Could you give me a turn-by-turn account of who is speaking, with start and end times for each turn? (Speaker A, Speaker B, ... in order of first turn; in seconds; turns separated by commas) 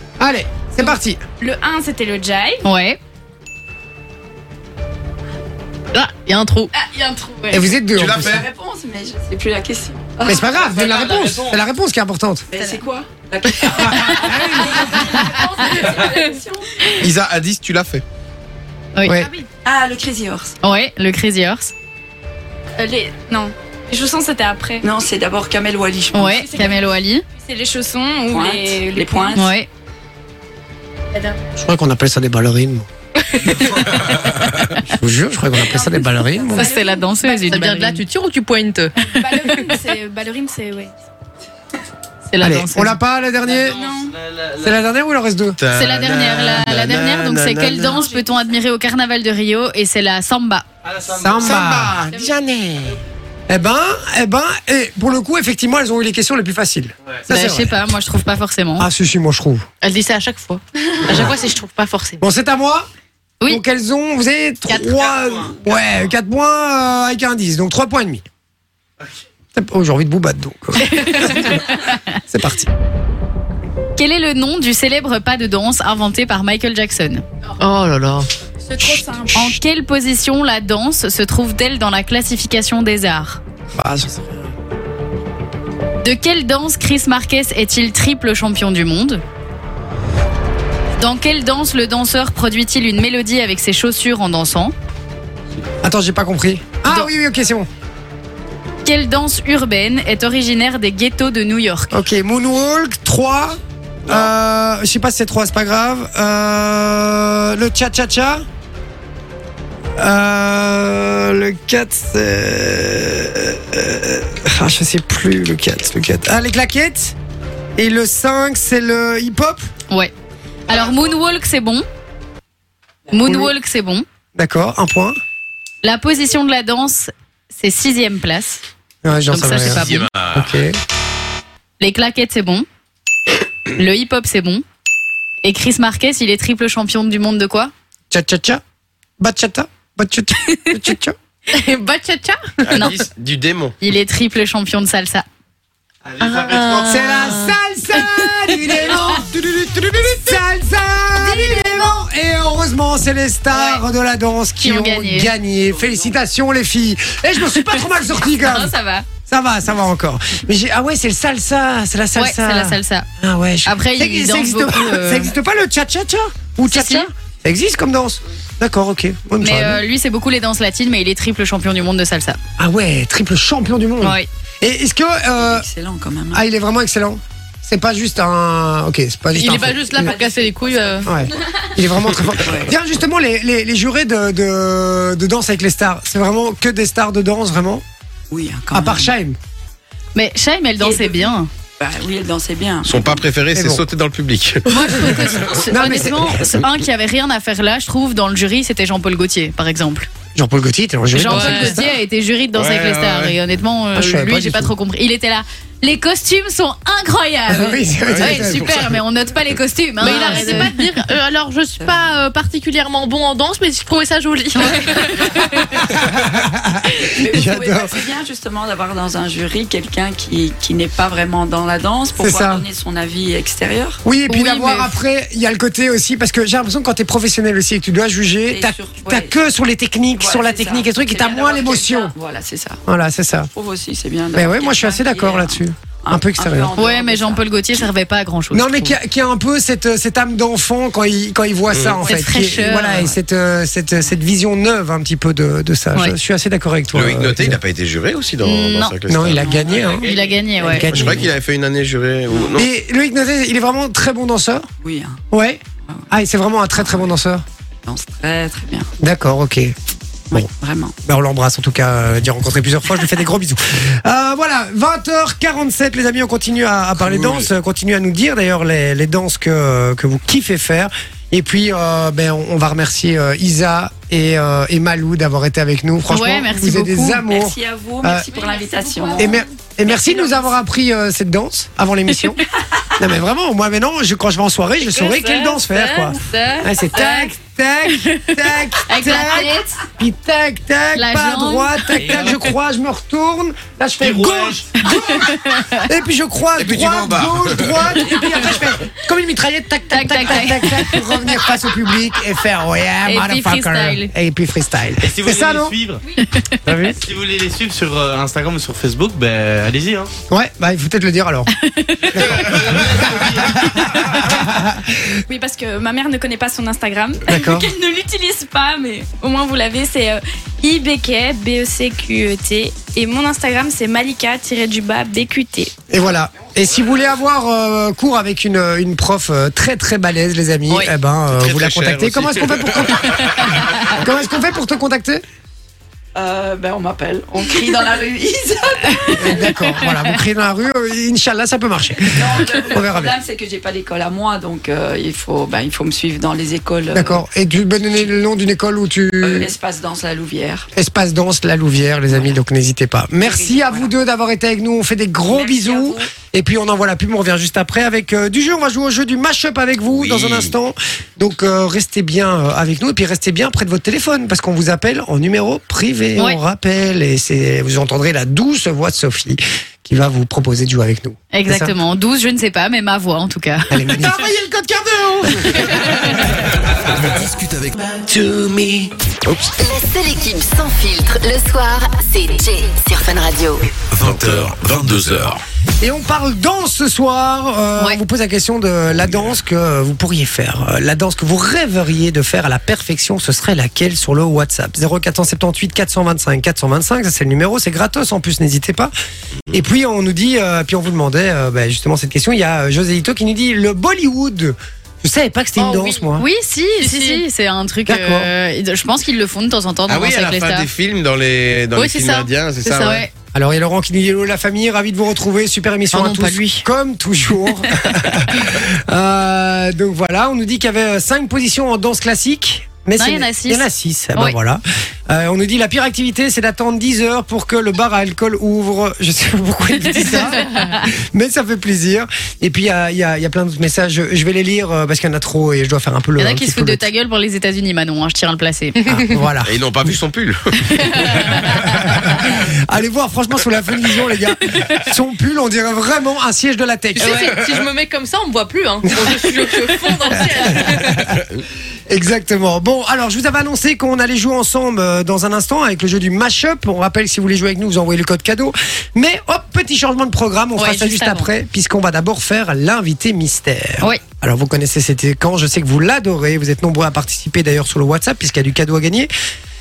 Speaker A: 0.2-1.2, Speaker B: 1.4-2.6, Speaker C: 2.6-3.0, Speaker D: 5.9-6.7, Speaker B: 6.7-7.7, Speaker A: 7.5-8.4, Speaker E: 7.9-8.5, Speaker F: 8.0-10.5, Speaker A: 10.3-12.5, Speaker G: 10.6-11.6, Speaker F: 12.5-16.7, Speaker B: 12.6-12.8, Speaker A: 13.7-15.1, Speaker E: 17.0-18.0, Speaker C: 18.9-19.2, Speaker A: 19.1-19.3, Speaker B: 19.1-19.5, Speaker F: 19.6-20.6, Speaker C: 20.6-21.7, Speaker B: 22.8-24.9, Speaker F: 24.8-26.4, Speaker C: 26.1-27.2, Speaker B: 26.3-29.4, Speaker F: 28.3-29.5, Speaker C: 29.4-29.7, Speaker B: 31.1-31.4, Speaker A: 31.6-32.9, Speaker C: 33.5-34.7, Speaker A: 34.9-36.7, Speaker B: 35.6-37.6, Speaker C: 36.5-38.0, Speaker D: 37.5-38.9, Speaker B: 39.1-40.9, Speaker C: 42.3-43.0, Speaker A: 42.4-43.8, Speaker G: 43.5-44.8, Speaker B: 43.7-44.1, Speaker A: 44.6-45.6, Speaker E: 45.6-47.9, Speaker C: 45.7-50.6, Speaker B: 47.8-48.3, Speaker G: 50.8-51.9, Speaker A: 51.2-52.0, Speaker E: 51.4-52.9, Speaker A: 53.5-57.8, Speaker C: 57.3-58.9, Speaker A: 58.8-59.7, Speaker D: 59.8-62.2, Speaker A: 62.2-62.9, Speaker A: 63.5-68.2, Speaker G: 64.9-65.7, Speaker A: 69.5-71.7, Speaker C: 70.8-72.0, Speaker A: 72.3-72.7, Speaker C: 74.0-77.2, Speaker D: 77.6-78.3, Speaker B: 78.7-79.4, Speaker C: 79.3-83.4, Speaker A: 83.8-84.5, Speaker C: 86.0-89.2, Speaker C: 91.0-94.7, Speaker A: 95.8-97.7, Speaker C: 98.8-102.0, Speaker A: 101.9-108.5, Speaker A: 110.0-117.2, Speaker A: 117.8-119.7, Speaker C: 120.7-121.8, Speaker C: 123.1-124.0, Speaker A: 123.2-123.5, Speaker A: 124.3-125.2, Speaker C: 125.8-128.6, Speaker A: 129.0-130.8, Speaker C: 129.3-130.1, Speaker E: 129.7-130.6, Speaker C: 131.8-132.7, Speaker C: 133.8-134.6, Speaker C: 135.4-137.7, Speaker A: 138.1-138.6, Speaker A: 139.2-141.2, Speaker D: 141.5-142.8, Speaker E: 142.6-143.8, Speaker C: 143.8-145.2, Speaker G: 146.0-147.4, Speaker D: 146.2-147.5, Speaker A: 146.9-158.7, Speaker C: 151.2-151.9, Speaker C: 153.5-153.8, Speaker C: 154.6-155.3, Speaker F: 155.8-156.0, Speaker C: 158.2-159.1, Speaker A: 159.3-169.8, Speaker C: 162.2-163.1, Speaker C: 163.7-165.3, Speaker C: 166.7-167.1, Speaker C: 169.4-172.4, Speaker A: 172.6-175.7, Speaker C: 174.0-174.3, Speaker F: 175.4-176.4, Speaker A: 176.3-180.1, Speaker D: 179.3-181.1, Speaker F: 179.8-181.3, Speaker A: 181.0-187.8, Speaker F: 182.4-182.7, Speaker F: 188.3-189.1, Speaker A: 188.7-189.4, Speaker C: 190.2-191.5, Speaker F: 190.8-193.3, Speaker E: 192.8-195.6, Speaker A: 193.6-193.9, Speaker C: 194.7-200.1, Speaker A: 195.7-196.4, Speaker A: 200.3-201.8, Speaker C: 201.1-210.9, Speaker D: 201.2-201.8, Speaker E: 202.5-203.4, Speaker A: 203.9-204.7, Speaker A: 207.5-208.9, Speaker E: 208.1-208.9, Speaker D: 210.0-215.2, Speaker A: 210.0-210.7, Speaker F: 211.8-212.0, Speaker C: 214.7-215.4, Speaker A: 215.8-218.0, Speaker F: 216.9-224.0, Speaker A: 222.2-222.7, Speaker A: 224.1-232.1, Speaker C: 224.3-224.9, Speaker F: 228.5-229.4, Speaker F: 230.2-232.8, Speaker A: 232.9-233.5, Speaker F: 233.5-237.9, Speaker A: 234.3-236.7, Speaker C: 236.8-239.0, Speaker A: 238.5-247.6, Speaker E: 241.7-242.0, Speaker C: 242.1-243.1, Speaker E: 246.9-249.5, Speaker C: 248.4-249.0, Speaker A: 249.1-250.1, Speaker F: 249.3-249.9, Speaker G: 249.7-250.3, Speaker C: 250.0-250.9, Speaker F: 250.6-251.3, Speaker A: 250.7-251.3, Speaker E: 250.8-252.7, Speaker F: 252.3-252.6, Speaker A: 252.5-254.7, Speaker F: 254.8-255.2, Speaker A: 255.3-257.4, Speaker F: 256.8-257.2, Speaker F: 257.9-258.9, Speaker A: 259.0-259.8, Speaker F: 260.3-260.9, Speaker A: 261.0-278.3, Speaker E: 267.1-267.5, Speaker C: 276.1-277.2, Speaker F: 277.3-279.4, Speaker A: 279.2-282.4, Speaker A: 283.0-305.8, Speaker B: 285.2-285.5, Speaker C: 287.0-287.3, Speaker C: 288.9-289.8, Speaker C: 290.9-292.0, Speaker G: 292.0-292.4, Speaker G: 294.0-294.6, Speaker C: 294.8-295.9, Speaker E: 296.6-297.9, Speaker C: 299.9-301.3, Speaker C: 303.1-304.1, Speaker G: 305.0-306.0, Speaker C: 306.2-306.6, Speaker A: 306.6-307.0, Speaker G: 307.0-310.1, Speaker A: 310.3-311.5, Speaker C: 311.6-312.3, Speaker G: 312.1-314.0, Speaker A: 312.1-315.0, Speaker B: 315.3-325.7, Speaker A: 317.3-317.7, Speaker A: 325.9-335.2, Speaker E: 331.3-334.0, Speaker C: 333.2-333.9, Speaker F: 336.1-339.5, Speaker A: 339.2-343.2, Speaker C: 339.3-340.1, Speaker F: 342.1-347.2, Speaker A: 346.9-349.5, Speaker F: 349.2-350.7, Speaker A: 350.7-371.8, Speaker F: 353.2-353.9, Speaker F: 355.3-356.1, Speaker E: 359.9-360.5, Speaker C: 371.3-374.1, Speaker A: 373.7-376.2, Speaker C: 375.6-376.2, Speaker H: 377.0-377.8, Speaker E: 378.0-379.5, Speaker I: 379.6-383.8, Speaker H: 383.9-385.4, Speaker E: 384.0-385.4, Speaker A: 385.8-398.9, Speaker A: 399.5-406.3, Speaker D: 405.6-406.1, Speaker C: 406.2-410.7, Speaker D: 406.8-407.2, Speaker A: 407.9-408.3, Speaker E: 409.9-413.0, Speaker D: 411.7-413.1, Speaker C: 412.8-413.1, Speaker A: 413.3-436.9, Speaker D: 415.9-416.6, Speaker C: 423.0-424.4, Speaker C: 430.0-430.8, Speaker C: 436.2-438.8, Speaker A: 438.9-439.9, Speaker E: 439.4-441.4, Speaker D: 441.0-441.4, Speaker C: 441.1-441.7, Speaker A: 442.2-447.3, Speaker D: 447.0-451.2, Speaker C: 447.0-447.3, Speaker A: 448.9-451.2, Speaker A: 451.9-469.1, Speaker C: 460.6-461.3